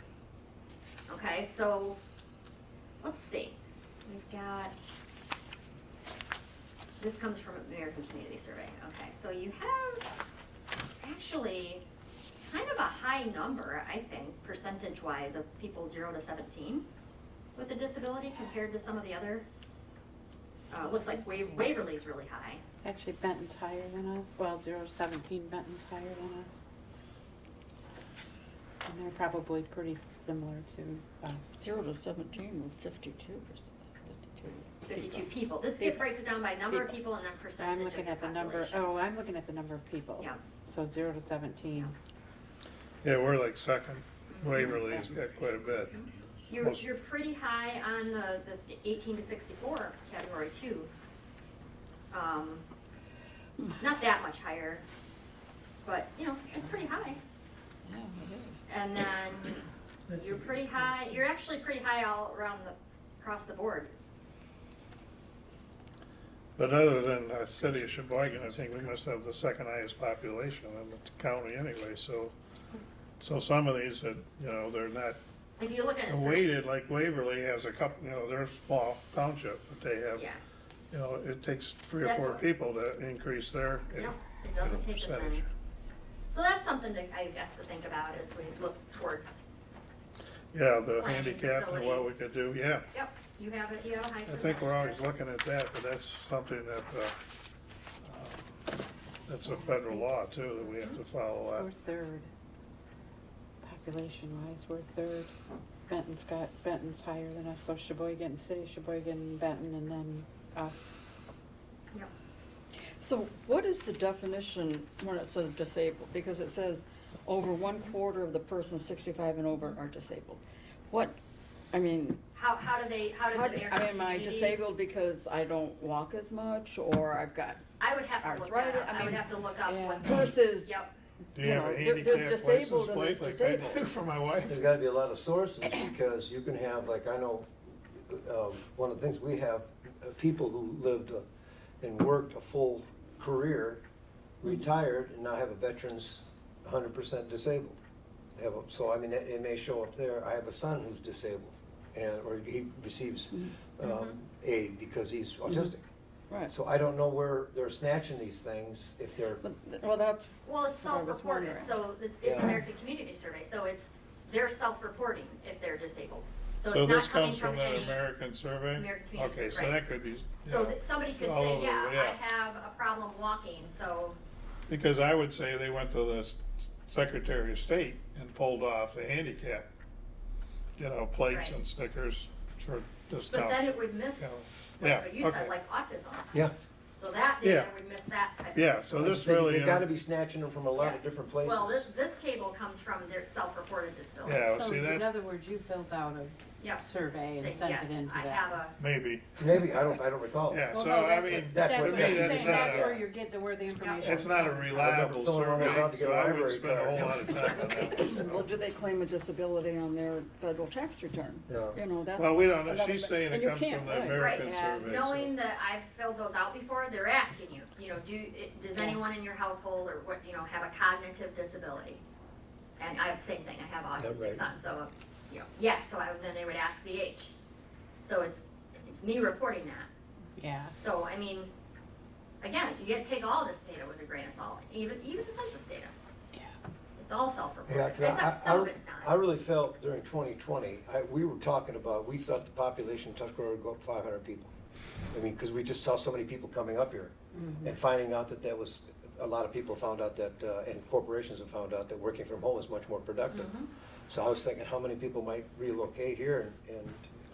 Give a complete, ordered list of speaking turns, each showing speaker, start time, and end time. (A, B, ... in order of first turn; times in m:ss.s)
0:01.1-0:02.0 A
0:03.0-0:05.0 A
0:07.0-0:10.1 A
0:11.0-0:11.8 A
0:12.5-0:16.9 A
0:17.6-0:19.4 A
0:20.7-0:22.6 A
0:20.9-0:21.7 B
0:22.8-0:26.6 B
0:28.8-0:31.6 B
0:31.6-0:35.2 C
0:34.9-0:38.8 A
0:35.8-0:36.1 C
0:37.6-0:42.0 B
0:43.0-0:46.0 D
0:44.3-0:44.8 A
0:44.6-0:45.3 B
0:45.8-0:50.9 A
0:52.1-0:52.6 A
0:53.7-0:54.8 A
0:55.8-0:57.2 A
0:57.8-0:58.7 C
0:58.7-1:03.9 A
1:06.6-1:12.4 D
1:13.2-1:15.2 D
1:15.6-1:16.4 A
1:16.1-1:20.3 D
1:20.2-1:20.4 A
1:20.9-1:25.4 D
1:22.0-1:22.4 A
1:24.0-1:25.4 A
1:26.3-1:29.4 A
1:30.5-1:32.8 D
1:31.0-1:32.1 A
1:32.9-1:35.0 A
1:34.3-1:37.2 D
1:38.0-1:38.4 D
1:39.3-1:41.7 D
1:39.4-1:40.1 B
1:40.6-1:41.0 A
1:41.5-1:42.3 B
1:43.6-1:45.3 B
1:45.9-1:50.9 B
1:53.0-2:01.2 C
2:01.7-2:02.2 C
2:02.4-2:04.6 A
2:03.3-2:07.6 C
2:07.8-2:10.9 A
2:08.2-2:09.3 C
2:09.0-2:10.4 B
2:10.0-2:10.8 C
2:11.4-2:14.6 D
2:11.4-2:13.8 C
2:14.5-2:21.3 E
2:21.8-2:23.8 E
2:24.4-2:27.8 E
2:28.4-2:35.8 E
2:33.8-2:34.2 A
2:35.5-2:35.7 C
2:36.5-2:39.4 E
2:39.4-2:41.8 C
2:40.4-2:48.1 A
2:42.2-2:42.6 E
2:46.7-2:52.2 D
2:48.7-2:49.8 A
2:50.4-2:54.2 A
2:54.7-2:59.7 D
3:00.8-3:05.6 D
3:01.3-3:01.6 A
3:03.3-3:06.3 A
3:07.0-3:09.0 A
3:07.4-3:07.7 D
3:08.5-3:09.9 D
3:09.0-3:11.9 E
3:10.8-3:14.5 A
3:14.2-3:15.1 D
3:14.5-3:18.6 B
3:16.6-3:18.8 A
3:18.8-3:19.3 D
3:19.4-3:20.7 E
3:20.5-3:22.9 D
3:20.7-3:25.1 B
3:21.3-3:23.0 E
3:22.3-3:22.6 C
3:23.8-3:24.2 A
3:24.0-3:28.2 D
3:24.7-3:27.8 E
3:28.0-3:34.3 C
3:31.5-3:31.8 E
3:32.2-3:35.2 D
3:34.1-3:42.0 A
3:34.3-3:35.3 B
3:42.8-3:47.3 A
3:44.0-3:44.5 E
3:48.0-3:49.9 A
3:50.4-3:50.7 B
3:50.8-3:51.5 A
3:52.4-3:55.9 A
3:57.0-3:59.1 A
3:57.7-4:04.5 E
4:05.1-4:13.5 E
4:07.3-4:07.7 B
4:13.3-4:13.7 A
4:14.1-4:17.1 E